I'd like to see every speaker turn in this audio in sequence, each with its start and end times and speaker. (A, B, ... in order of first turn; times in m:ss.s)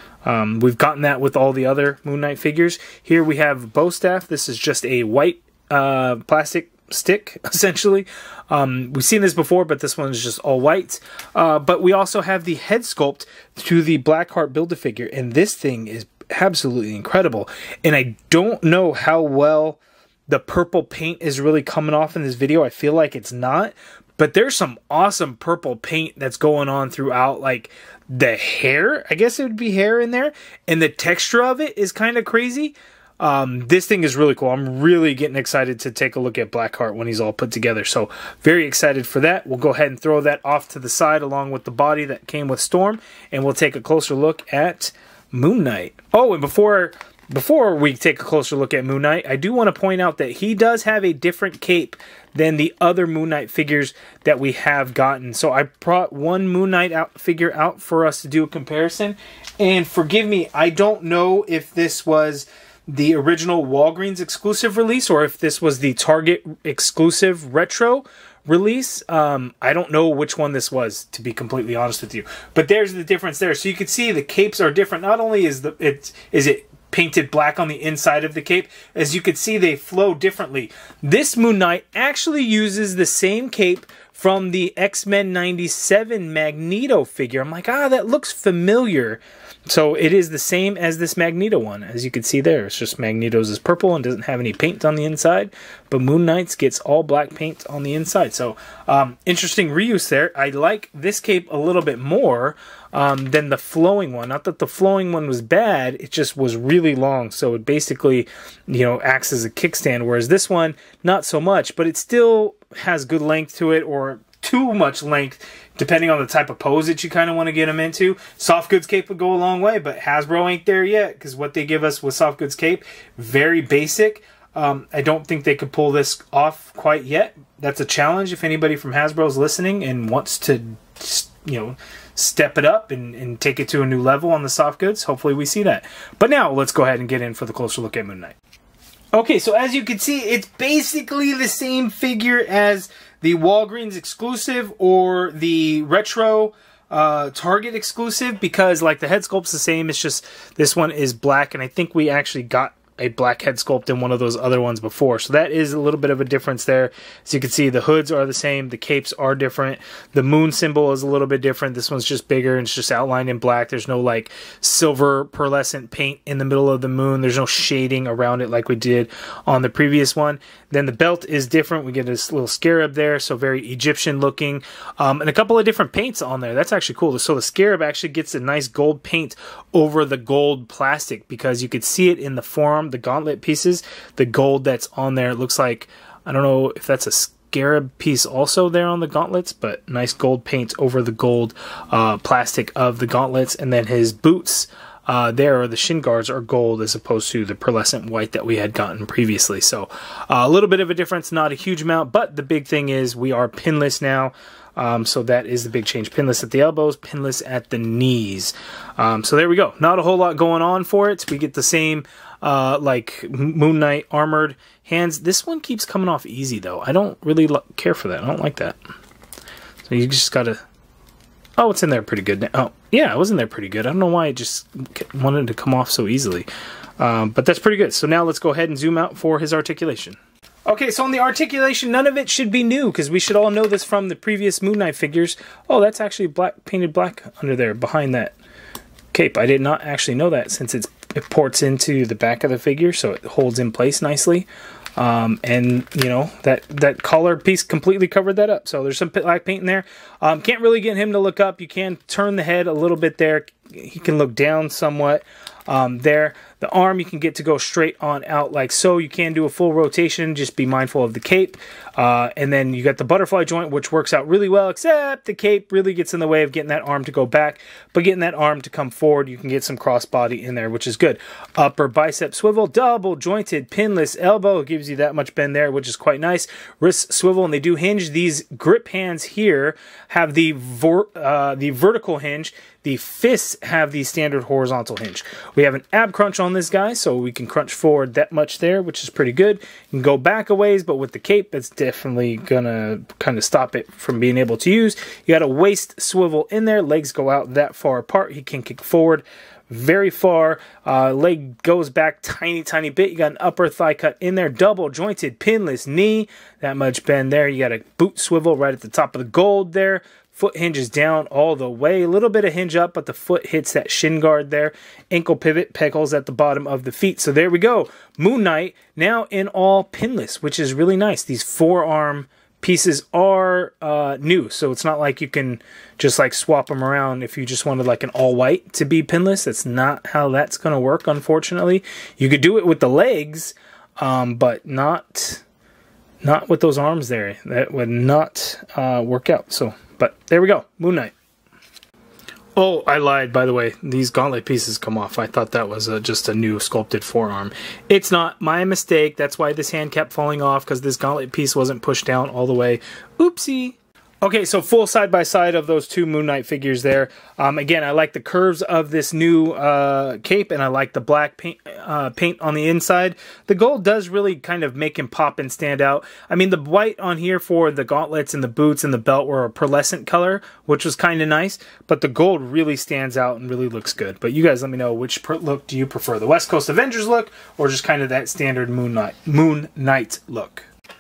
0:00.2-2:18.4 A
2:19.1-3:38.8 A
3:39.9-3:40.6 A
3:41.6-3:46.5 A
3:47.0-3:58.4 A
3:59.1-5:35.4 A
5:36.2-5:41.1 A
5:42.6-6:20.7 A